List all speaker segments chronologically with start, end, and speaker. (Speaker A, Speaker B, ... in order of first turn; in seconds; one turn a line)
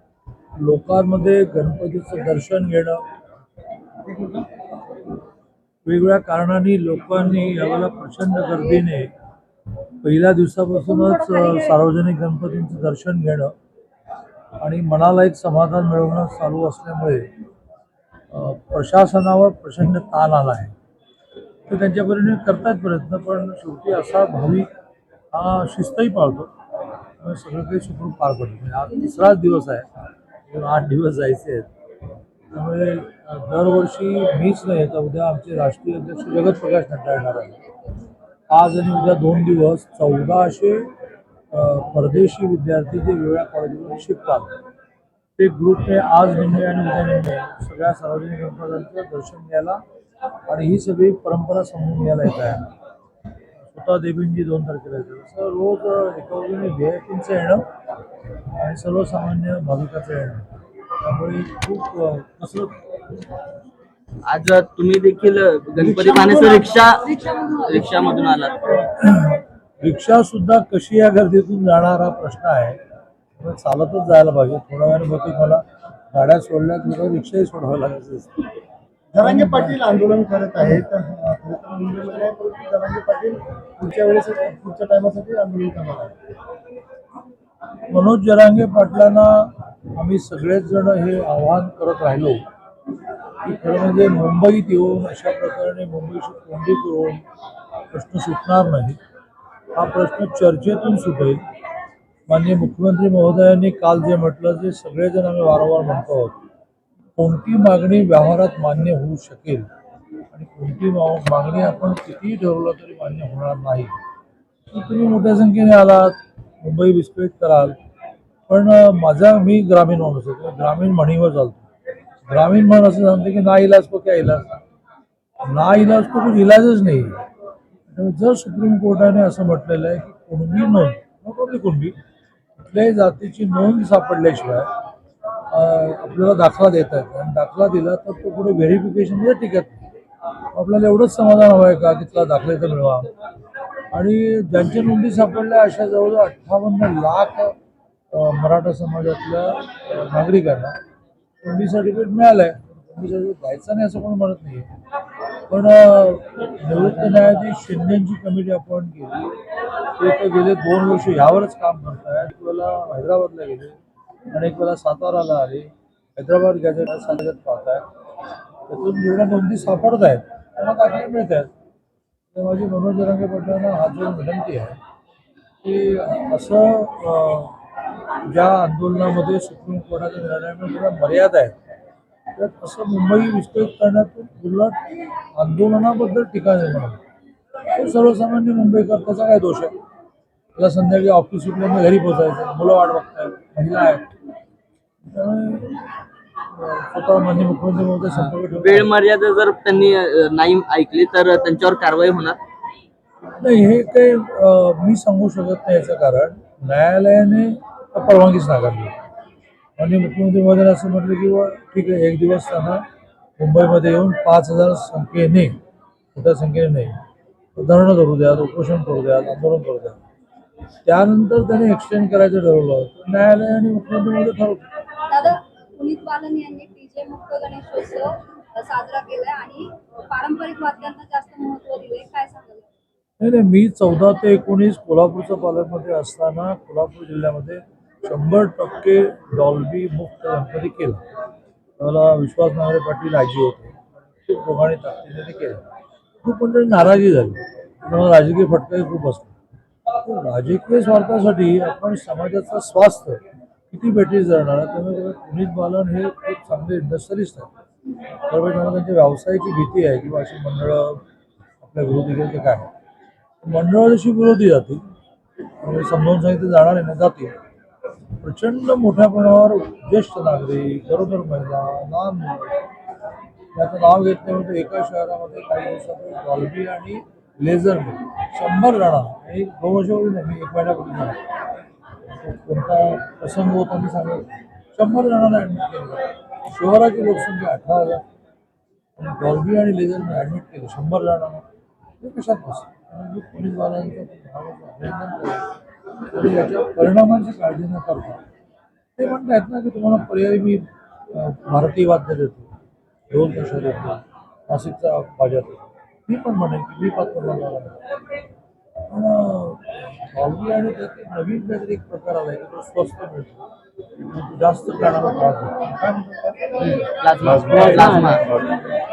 Speaker A: 0.6-3.0
Speaker A: 5.8-9.1
Speaker A: 10.0-13.5
Speaker A: 14.6-17.3
Speaker A: 18.3-20.7
Speaker A: 21.7-24.7
Speaker A: 25.3-26.5
Speaker A: 27.2-29.9
Speaker A: 30.5-31.7
Speaker A: 32.5-37.7
Speaker A: 38.5-40.9
Speaker A: 41.5-44.5
Speaker A: 45.4-49.8
Speaker A: 50.5-52.7
Speaker A: 53.6-57.7
Speaker A: 58.5-62.8
Speaker B: 64.3-68.7
Speaker C: 67.1-67.5
Speaker A: 68.7-72.8
Speaker A: 73.4-78.3
Speaker D: 79.1-86.1
Speaker A: 79.2-79.8
Speaker A: 87.9-92.4
Speaker A: 93.4-97.2
Speaker A: 97.9-99.0
Speaker A: 99.7-101.4
Speaker A: 102.3-106.4
Speaker A: 107.2-109.7
Speaker A: 110.3-113.9
Speaker A: 114.7-117.8
Speaker A: 118.5-121.6
Speaker A: 122.2-124.6
Speaker A: 125.4-127.2
Speaker A: 127.9-131.9
Speaker A: 132.6-134.7
Speaker A: 135.5-139.8
Speaker A: 140.5-143.1
Speaker A: 143.9-147.6
Speaker A: 148.1-150.8
Speaker A: 151.4-154.7
Speaker A: 155.5-159.4
Speaker A: 160.0-163.8
Speaker A: 164.3-167.8
Speaker A: 168.7-171.5
Speaker A: 172.3-174.8
Speaker A: 175.6-177.5
Speaker A: 178.2-181.6
Speaker A: 182.3-187.0
Speaker A: 187.7-189.7
Speaker A: 190.6-194.1
Speaker A: 195.1-195.8
Speaker A: 196.5-198.9
Speaker B: 198.1-202.4
Speaker A: 203.4-208.9
Speaker A: 209.8-212.8
Speaker A: 213.4-215.6
Speaker A: 216.1-217.0
Speaker A: 217.6-220.0
Speaker A: 220.8-224.7
Speaker C: 225.1-232.7
Speaker A: 233.2-241.0
Speaker A: 241.8-245.6
Speaker A: 246.2-249.3
Speaker A: 249.9-257.5
Speaker A: 258.2-261.0
Speaker A: 261.6-262.7
Speaker A: 263.4-264.8
Speaker A: 265.6-267.3
Speaker A: 268.2-272.6
Speaker A: 273.5-281.2
Speaker A: 282.2-288.0
Speaker A: 289.0-291.4
Speaker A: 292.0-295.5
Speaker A: 296.1-298.2
Speaker A: 299.0-302.5
Speaker A: 303.1-307.8
Speaker A: 308.9-313.4
Speaker A: 314.0-315.8
Speaker D: 315.8-316.6
Speaker B: 316.6-318.3
Speaker A: 317.6-317.9